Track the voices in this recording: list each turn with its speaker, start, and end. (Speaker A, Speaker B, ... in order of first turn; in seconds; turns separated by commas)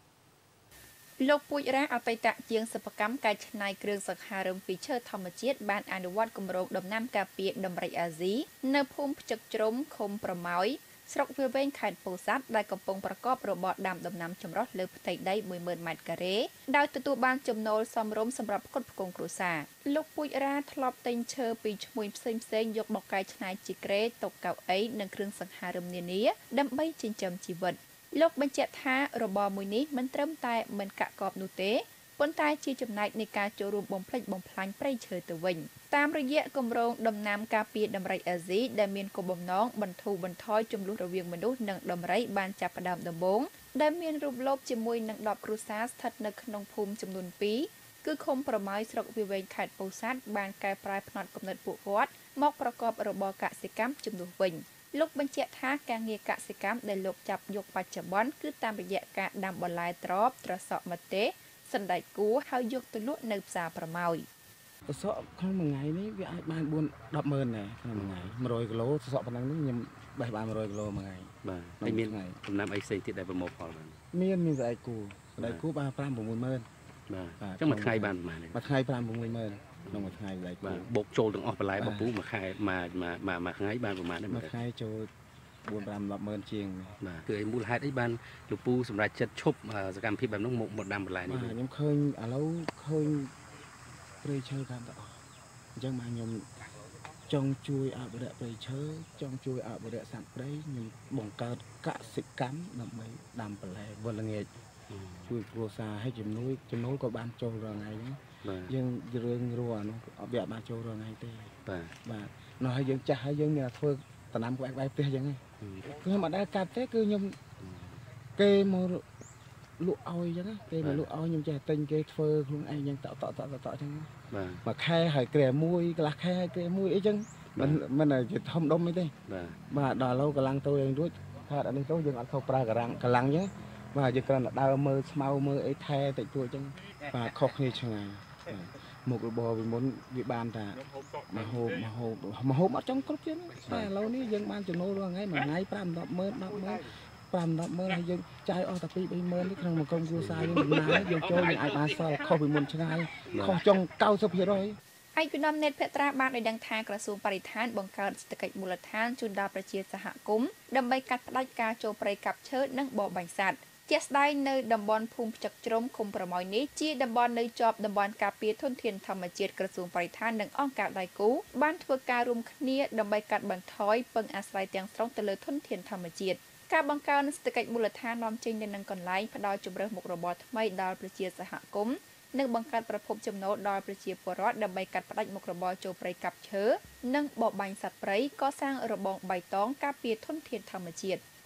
Speaker A: 1.2-64.3, Speaker B: 64.9-72.4, Speaker C: 68.0-68.3, Speaker C: 71.4-74.0, Speaker B: 74.1-76.7, Speaker C: 77.1-78.6, Speaker B: 77.4-80.9, Speaker C: 79.9-84.5, Speaker B: 81.8-82.1, Speaker B: 84.3-85.1, Speaker B: 85.7-87.0, Speaker C: 87.0-91.6, Speaker B: 91.3-93.3, Speaker B: 94.2-95.2, Speaker B: 95.8-96.5, Speaker B: 97.3-104.5, Speaker C: 104.9-105.3, Speaker B: 105.3-117.4, Speaker C: 108.4-108.7, Speaker C: 111.7-111.9, Speaker C: 115.6-115.9, Speaker C: 117.6-118.0, Speaker B: 118.4-119.0, Speaker B: 119.8-129.2, Speaker C: 120.8-121.1, Speaker C: 124.3-124.6, Speaker C: 129.3-129.6, Speaker B: 129.7-154.8, Speaker C: 150.2-150.6, Speaker C: 153.3-153.6, Speaker A: 155.2-191.2